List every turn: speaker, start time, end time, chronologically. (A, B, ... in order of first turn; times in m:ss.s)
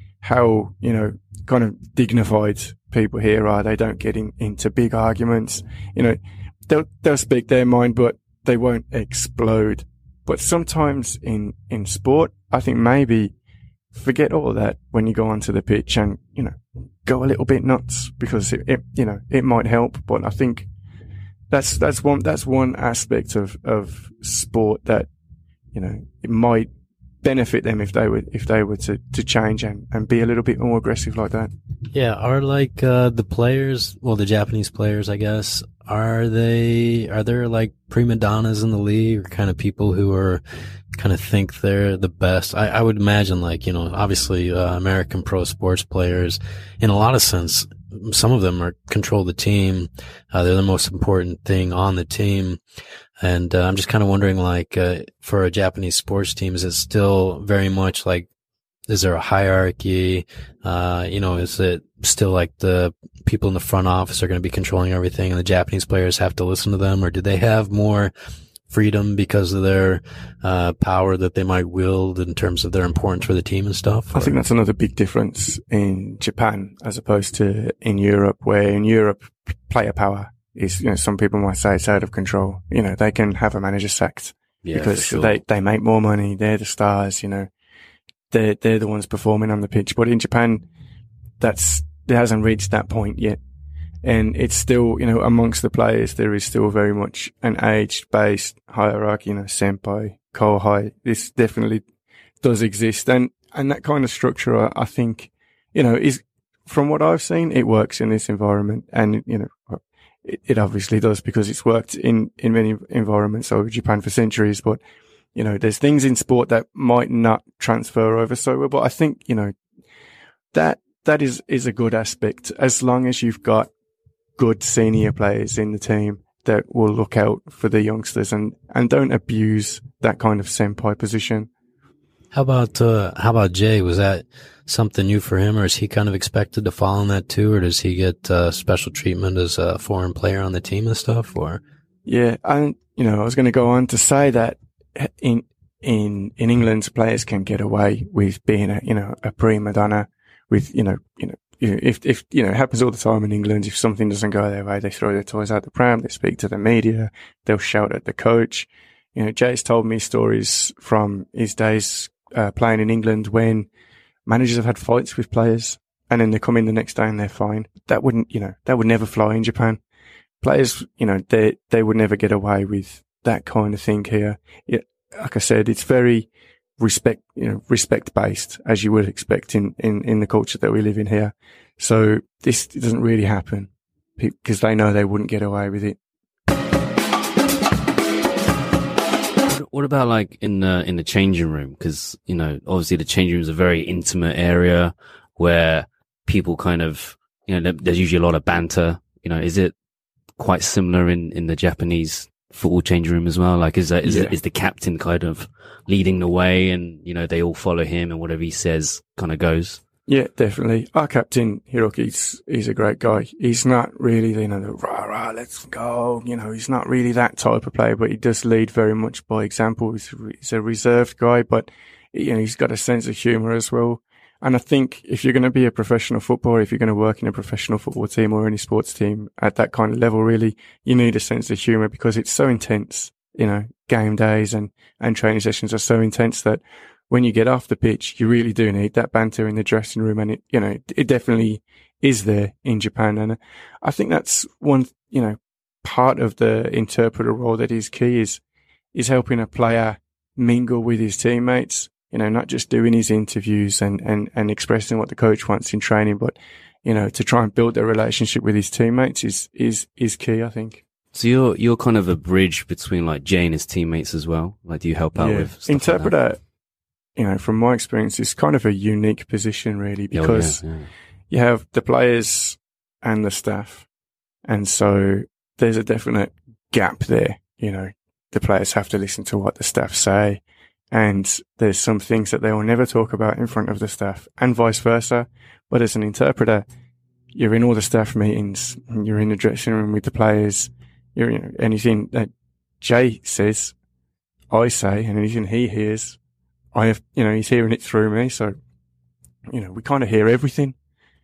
0:00.2-0:13.3 A
0:13.9-0:20.7 A
0:21.5-0:25.1 A
0:25.7-0:26.7 A
0:27.2-0:31.5 A
0:31.9-0:40.4 B
0:40.9-0:52.6 B
0:53.2-0:58.3 B
0:58.9-1:08.1 B
1:08.7-1:14.4 B
1:14.1-1:27.5 A
1:24.6-1:25.4 C
1:28.3-1:30.6 A
1:31.4-1:33.4 A
1:34.0-1:41.8 A
1:42.4-1:54.8 A
1:55.4-1:59.5 A
2:00.5-2:03.7 A
2:04.4-2:11.5 A
2:12.3-2:21.6 B
2:22.1-2:43.7 A
2:44.3-2:49.8 A
2:50.4-3:06.0 A
3:09.5-3:19.8 C
3:20.4-3:29.8 C
3:24.0-3:24.3 A
3:30.1-4:08.4 A
4:09.0-4:20.8 A
4:21.1-4:26.1 C
4:25.2-4:26.4 A
4:27.2-4:30.6 A
4:30.1-4:30.9 C
4:31.3-4:33.9 A
4:34.4-4:40.4 A
4:40.9-4:46.7 A
4:47.3-4:52.3 A
4:52.8-4:53.8 A
4:54.5-4:56.2 A
4:56.7-4:58.6 A
4:59.5-5:00.8 A